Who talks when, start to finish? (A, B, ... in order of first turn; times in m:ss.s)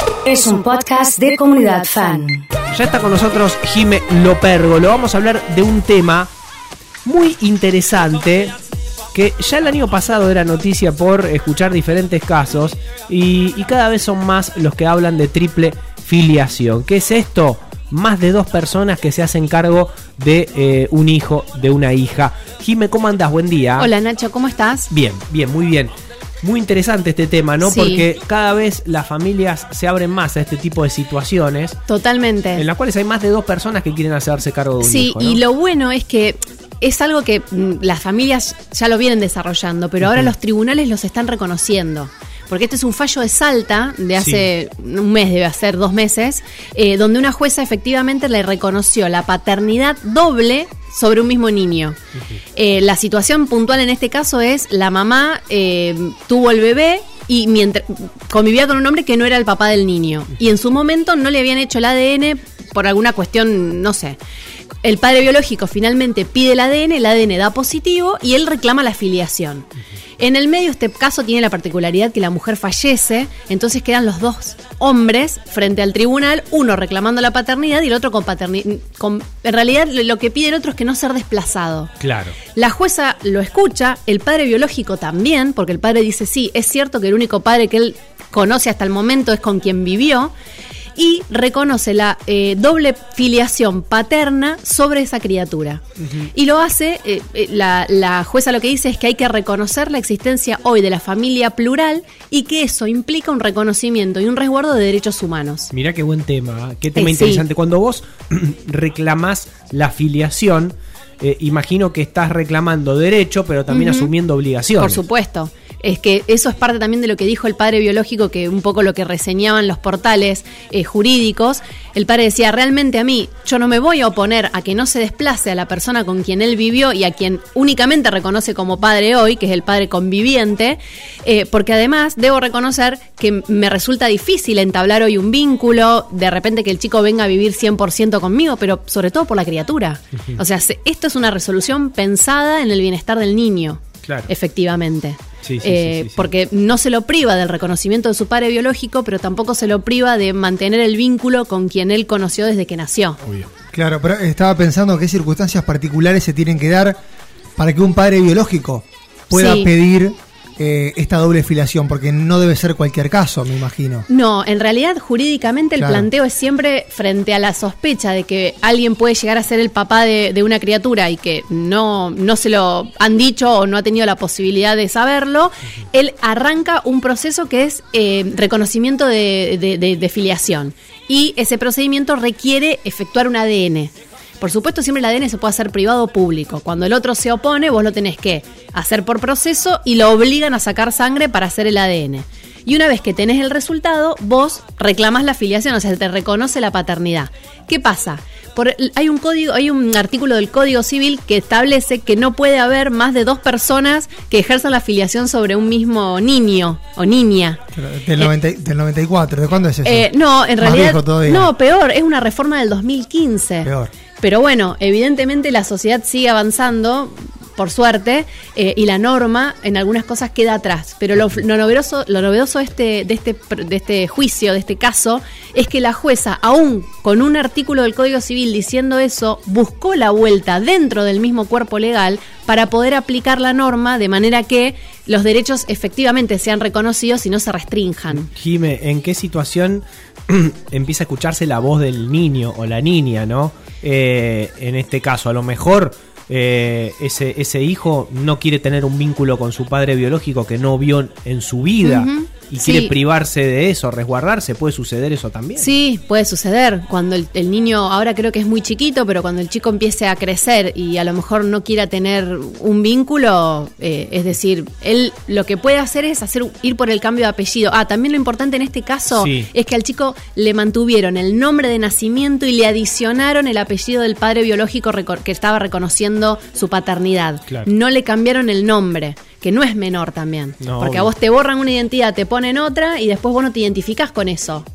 0:00.2-0:02.4 A
0:02.7-0:06.3 B
0:07.0-0:08.6 B
0:09.1-0:23.9 B
0:23.8-0:24.9 C
0:24.9-0:31.8 B
0:27.6-0:28.1 C
0:31.9-0:32.6 C
0:32.6-0:35.4 B
0:34.8-0:52.0 C
0:40.1-0:40.3 B
0:44.2-0:44.5 B
0:52.5-1:04.2 C
1:04.8-1:09.7 C
1:10.2-1:21.9 C
1:22.0-1:22.4 B
1:22.5-1:30.3 C
1:31.0-1:35.8 C
1:36.0-1:36.3 B
1:36.3-1:45.7 C
1:45.7-1:55.0 B
1:46.9-1:47.4 C
1:53.7-1:54.1 C
1:54.8-2:33.2 C
2:25.4-2:26.3 B
2:33.2-2:33.5 B
2:33.7-2:37.0 D
2:37.6-2:44.1 D
2:39.3-2:39.7 C
2:44.1-3:27.6 C
2:45.8-2:46.1 D
3:27.7-3:31.5 D
3:29.8-3:58.3 C
3:33.6-3:33.9 D
3:58.2-4:15.7 B
4:11.8-4:12.9 C
4:15.6-4:44.7 C
4:29.1-4:29.5 B
4:40.6-4:41.1 B